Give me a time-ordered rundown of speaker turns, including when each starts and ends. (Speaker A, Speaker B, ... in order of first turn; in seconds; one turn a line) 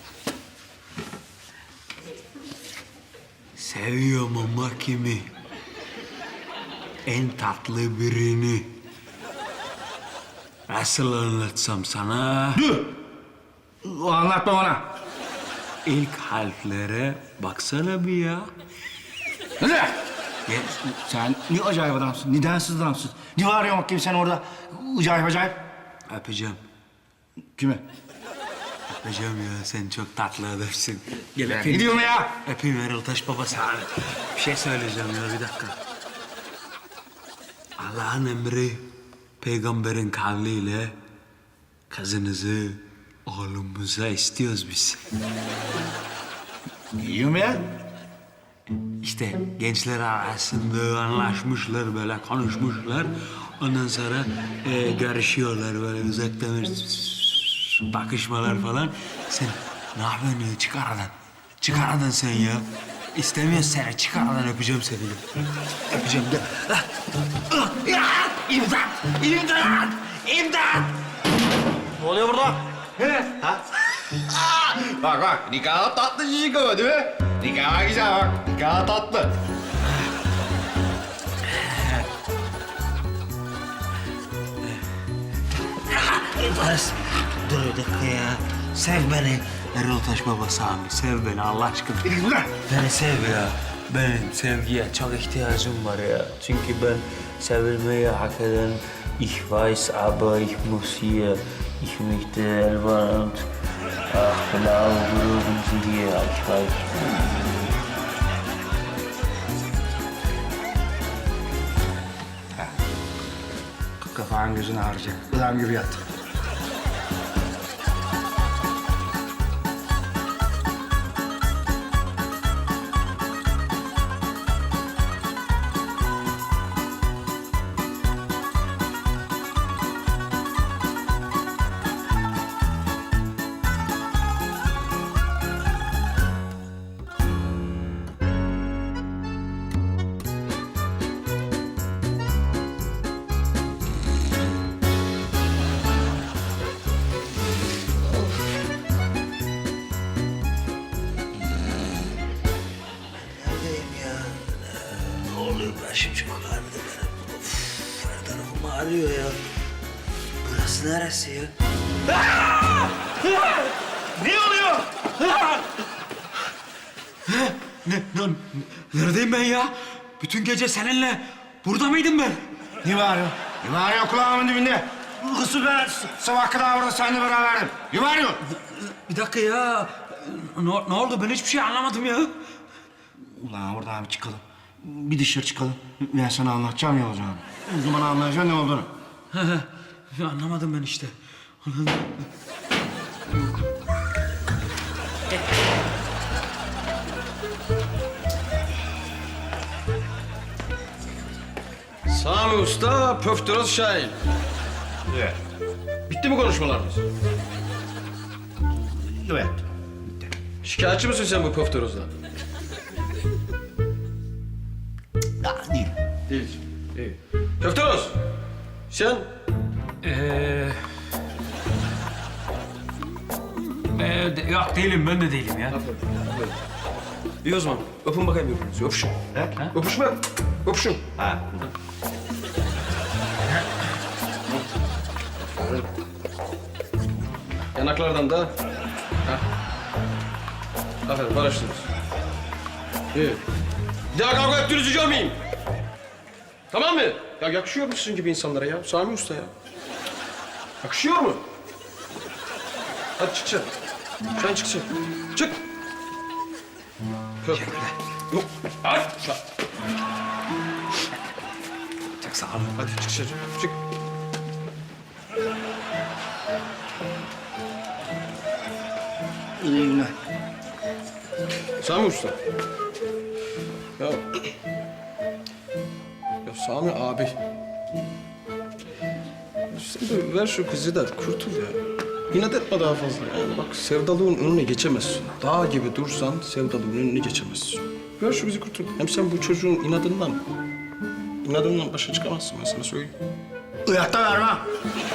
Speaker A: 3.5-5.3
Speaker A: 7.0-8.7
Speaker A: 10.7-12.6
Speaker B: 12.6-13.0
Speaker B: 13.8-14.8
Speaker A: 15.8-18.5
Speaker B: 19.6-19.9
Speaker A: 20.5-20.8
Speaker B: 20.6-25.6
Speaker A: 26.1-26.6
Speaker B: 27.6-27.8
Speaker A: 28.9-35.8
Speaker B: 31.4-32.3
Speaker A: 37.8-38.8
Speaker A: 39.4-40.9
Speaker A: 41.9-45.1
Speaker B: 47.0-47.7
Speaker A: 49.0-65.2
Speaker B: 65.9-66.8
Speaker B: 67.5-69.8
Speaker A: 68.4-70.8
Speaker B: 72.0-79.3
Speaker A: 81.5-82.1
Speaker A: 85.7-103.5
Speaker B: 92.0-92.5
Speaker A: 104.1-107.5
Speaker B: 114.0-116.0
Speaker A: 153.1-159.4
Speaker A: 160.4-161.5
Speaker A: 162.1-165.7
Speaker A: 167.2-172.4
Speaker B: 172.8-178.4
Speaker A: 178.5-182.3
Speaker B: 183.3-188.9
Speaker A: 189.3-192.2
Speaker C: 202.1-204.2
Speaker B: 205.1-205.4
Speaker C: 206.1-207.0
Speaker B: 208.7-209.7
Speaker C: 210.6-212.1
Speaker B: 215.4-215.9
Speaker C: 216.3-218.2
Speaker C: 218.9-219.3
Speaker A: 220.0-220.9
Speaker A: 223.6-225.8
Speaker C: 225.7-226.6
Speaker C: 227.4-229.2
Speaker C: 229.7-231.0
Speaker B: 231.2-231.4
Speaker C: 237.8-238.5
Speaker C: 241.1-241.9
Speaker C: 243.1-243.4
Speaker C: 244.1-245.4
Speaker C: 246.7-249.5
Speaker C: 250.8-251.4
Speaker C: 253.2-253.7
Speaker C: 254.3-255.6
Speaker A: 257.5-258.0
Speaker C: 258.3-259.4
Speaker A: 262.2-262.8
Speaker C: 262.8-263.8
Speaker B: 269.6-270.1
Speaker C: 271.8-272.4
Speaker C: 274.0-274.4
Speaker C: 276.4-277.4
Speaker C: 279.7-290.4
Speaker C: 291.4-293.1
Speaker B: 293.9-294.6